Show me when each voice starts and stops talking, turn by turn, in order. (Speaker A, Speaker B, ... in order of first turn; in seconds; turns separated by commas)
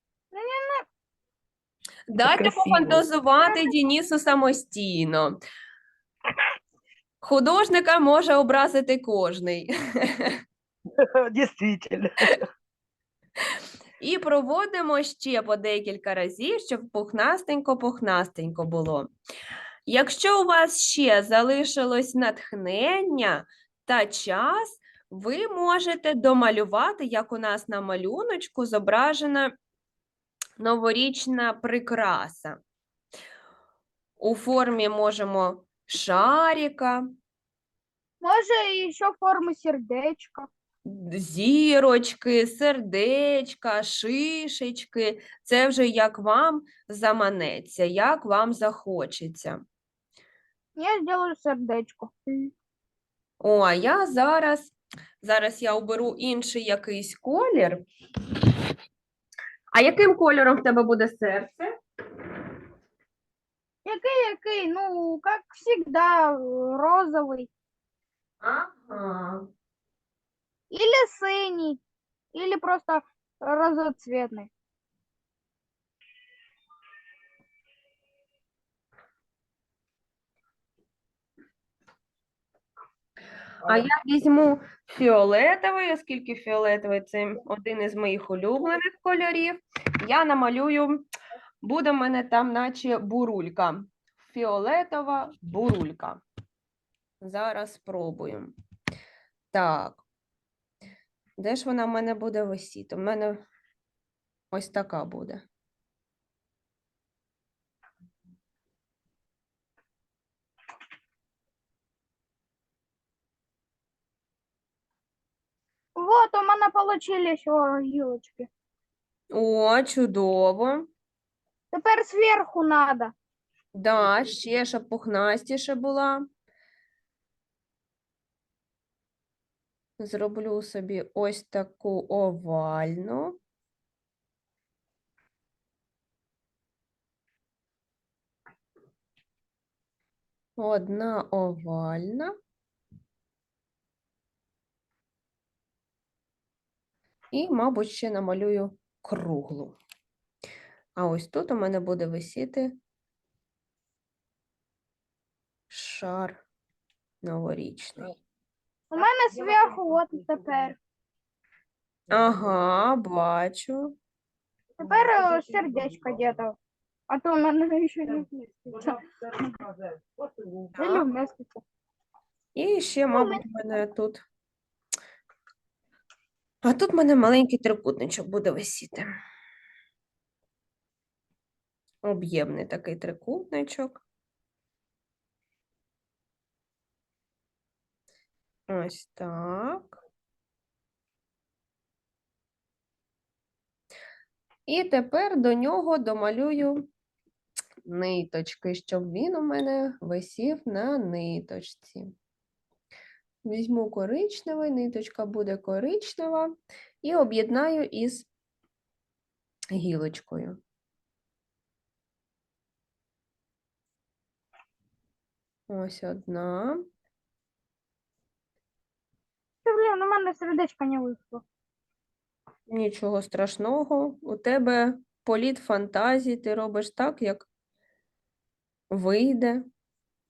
Speaker A: 0.3-0.8, Speaker B: 2.1-5.4, Speaker C: 2.2-3.0, Speaker B: 7.2-10.3, Speaker C: 11.3-12.4, Speaker B: 14.0-19.1, Speaker B: 19.9-29.5, Speaker B: 30.6-32.6, Speaker B: 34.2-37.0, Speaker A: 38.2-40.5, Speaker B: 40.9-49.6, Speaker A: 50.8-52.5, Speaker B: 53.4-57.8, Speaker B: 59.7-61.7, Speaker A: 63.8-67.5, Speaker B: 68.4-69.4, Speaker A: 70.7-71.8, Speaker A: 72.3-74.5, Speaker B: 83.6-91.1, Speaker B: 91.6-96.2, Speaker B: 97.2-98.5, Speaker B: 99.5-100.0, Speaker B: 101.4-103.4, Speaker B: 104.5-105.4, Speaker A: 116.0-118.5, Speaker B: 119.3-120.9, Speaker A: 121.7-123.1, Speaker B: 123.7-126.2, Speaker B: 130.0-133.4, Speaker B: 140.6-142.3, Speaker B: 147.3-149.8, Speaker B: 151.0-152.7, Speaker B: 155.7-156.4, Speaker B: 157.2-158.2, Speaker A: 158.9-160.8, Speaker C: 159.3-160.7, Speaker B: 162.1-163.9, Speaker A: 164.8-166.6, Speaker C: 164.8-166.3, Speaker A: 167.1-169.0, Speaker C: 168.1-170.9, Speaker A: 170.8-171.6, Speaker B: 172.5-174.2, Speaker A: 173.1-173.4, Speaker B: 176.6-179.1, Speaker B: 182.0-184.0, Speaker B: 188.7-190.0, Speaker B: 194.7-196.8, Speaker B: 197.8-202.1, Speaker B: 203.4-208.3, Speaker B: 209.7-210.6, Speaker B: 215.7-216.8, Speaker A: 219.6-221.4, Speaker B: 222.7-227.5, Speaker B: 228.9-229.6